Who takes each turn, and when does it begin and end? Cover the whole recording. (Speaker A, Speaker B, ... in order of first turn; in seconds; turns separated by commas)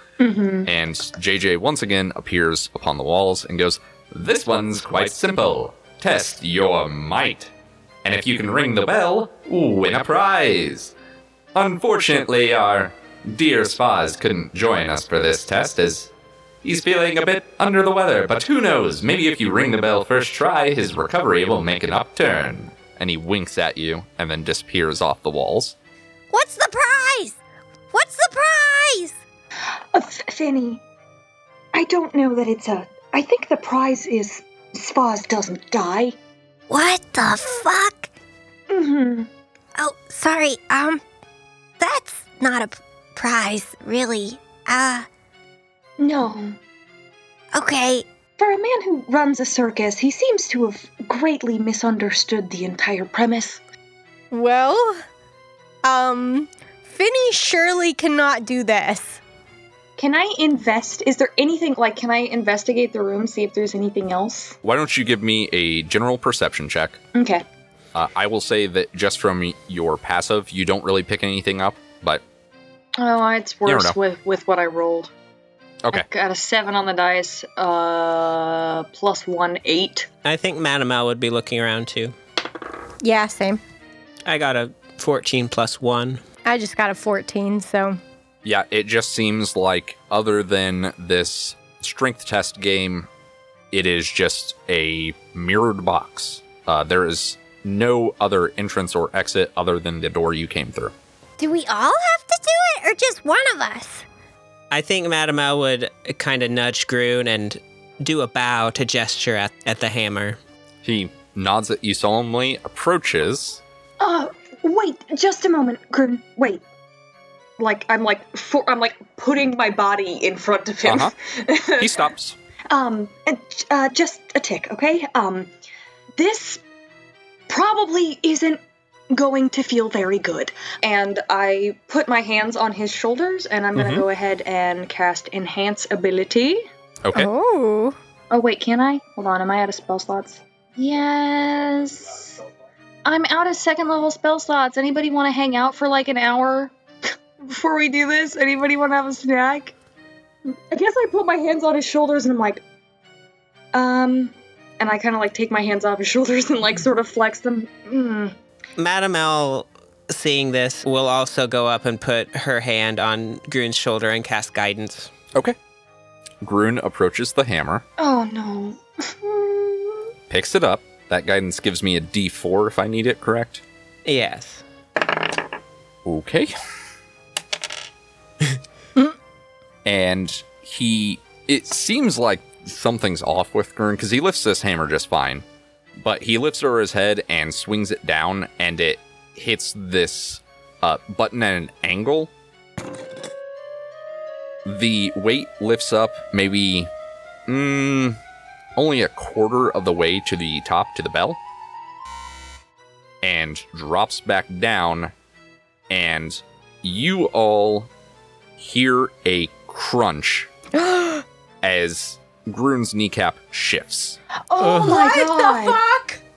Speaker A: 0.2-0.7, Speaker B: 0.6-7.5, Speaker B: 8.0-10.9, Speaker B: 11.5-16.1, Speaker B: 16.6-25.7, Speaker C: 26.3-27.4, Speaker C: 27.9-29.2, Speaker D: 29.9-30.8, Speaker D: 31.7-36.1, Speaker C: 36.7-38.1, Speaker D: 38.7-39.3, Speaker C: 39.8-41.0, Speaker C: 41.8-45.1, Speaker D: 46.0-46.6, Speaker C: 47.5-48.1, Speaker D: 48.4-53.6, Speaker C: 54.3-55.0, Speaker C: 55.8-59.2, Speaker A: 60.0-64.6, Speaker B: 64.6-67.0, Speaker A: 67.1-67.4, Speaker B: 67.9-72.2, Speaker A: 73.0-75.1, Speaker B: 73.7-74.0, Speaker A: 75.9-80.1, Speaker E: 80.2-82.1, Speaker C: 83.0-83.6, Speaker E: 84.2-86.2, Speaker C: 86.5-88.0, Speaker B: 88.4-93.1, Speaker B: 93.7-100.9, Speaker C: 101.4-104.0, Speaker E: 104.7-110.4, Speaker B: 110.8-113.6, Speaker D: 114.0-116.6, Speaker A: 117.6-121.8, Speaker B: 120.8-121.1, Speaker B: 121.8-122.3, Speaker D: 122.7-125.5, Speaker D: 126.2-126.6, Speaker D: 127.5-128.6, Speaker D: 129.1-130.8, Speaker A: 130.7-136.6, Speaker B: 133.7-134.0, Speaker B: 137.0-137.3, Speaker C: 137.1-138.0, Speaker A: 138.3-142.4, Speaker A: 143.0-146.7, Speaker A: 147.4-149.7, Speaker A: 150.7-152.6, Speaker A: 153.8-157.8, Speaker D: 157.8-158.3, Speaker E: 158.8-165.1, Speaker B: 166.4-167.8, Speaker D: 168.0-170.1, Speaker B: 170.3-173.6, Speaker E: 174.1-174.6, Speaker B: 176.0-176.5, Speaker B: 179.8-185.4, Speaker B: 186.0-192.3, Speaker B: 194.6-196.9, Speaker B: 197.5-198.2, Speaker B: 198.8-201.4, Speaker B: 203.2-205.1, Speaker B: 205.9-207.9, Speaker B: 208.6-210.5, Speaker C: 210.7-211.2, Speaker B: 211.6-214.2, Speaker D: 214.5-215.8, Speaker E: 214.6-215.0, Speaker C: 214.8-216.2